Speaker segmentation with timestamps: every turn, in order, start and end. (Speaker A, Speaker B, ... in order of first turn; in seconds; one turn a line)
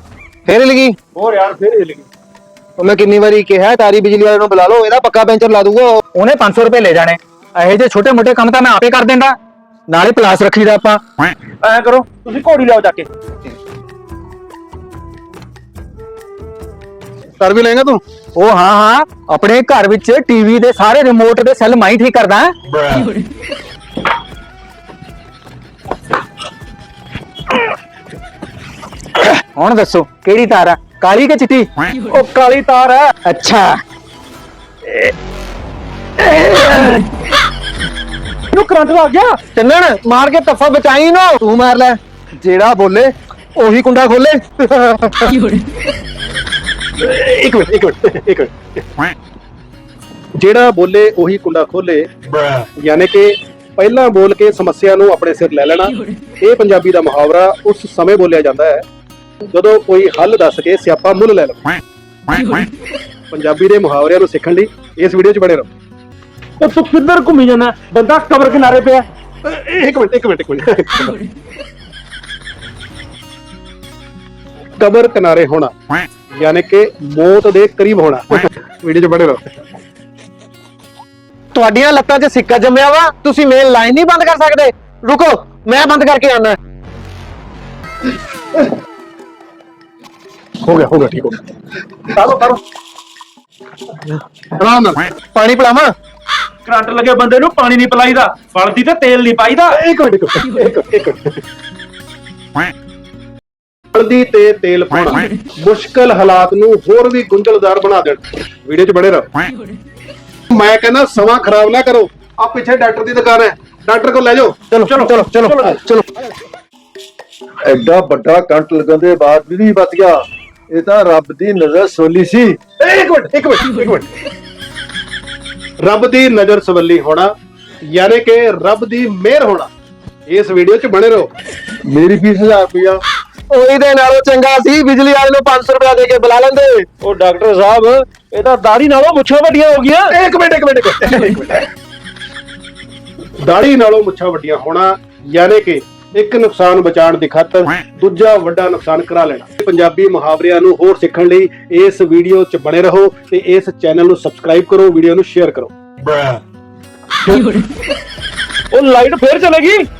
Speaker A: 0.5-1.0
Speaker B: 1.1-2.0
Speaker A: 2.8-6.0
Speaker C: 6.1-9.3
Speaker C: 9.9-11.0
Speaker B: 11.6-13.1
Speaker D: 17.4-18.0
Speaker C: 18.4-23.1
Speaker C: 29.6-31.7
Speaker B: 32.1-33.1
Speaker A: 33.3-33.8
Speaker A: 36.2-37.0
Speaker B: 38.5-39.4
Speaker A: 39.5-45.3
Speaker D: 47.0-48.8
Speaker D: 50.4-52.1
Speaker D: 52.8-58.8
Speaker D: 59.5-61.7
Speaker D: 63.3-65.7
Speaker B: 66.6-69.0
Speaker D: 69.4-71.2
Speaker D: 74.8-75.7
Speaker D: 76.4-79.4
Speaker A: 81.5-86.6
Speaker D: 90.6-91.4
Speaker D: 92.2-92.4
Speaker B: 92.2-92.5
Speaker D: 94.6-95.1
Speaker A: 95.3-95.9
Speaker B: 96.7-99.8
Speaker D: 99.7-101.4
Speaker D: 103.9-109.3
Speaker D: 110.5-114.7
Speaker B: 114.8-115.8
Speaker A: 115.0-115.4
Speaker D: 115.5-115.8
Speaker E: 117.7-122.6
Speaker D: 122.8-124.1
Speaker D: 125.8-127.3
Speaker D: 127.9-129.7
Speaker D: 130.3-131.3
Speaker E: 131.9-133.0
Speaker A: 133.5-136.8
Speaker B: 137.0-140.1
Speaker D: 140.1-141.7
Speaker D: 143.4-155.7
Speaker B: 156.1-156.4
Speaker B: 157.2-157.6
Speaker B: 158.7-159.8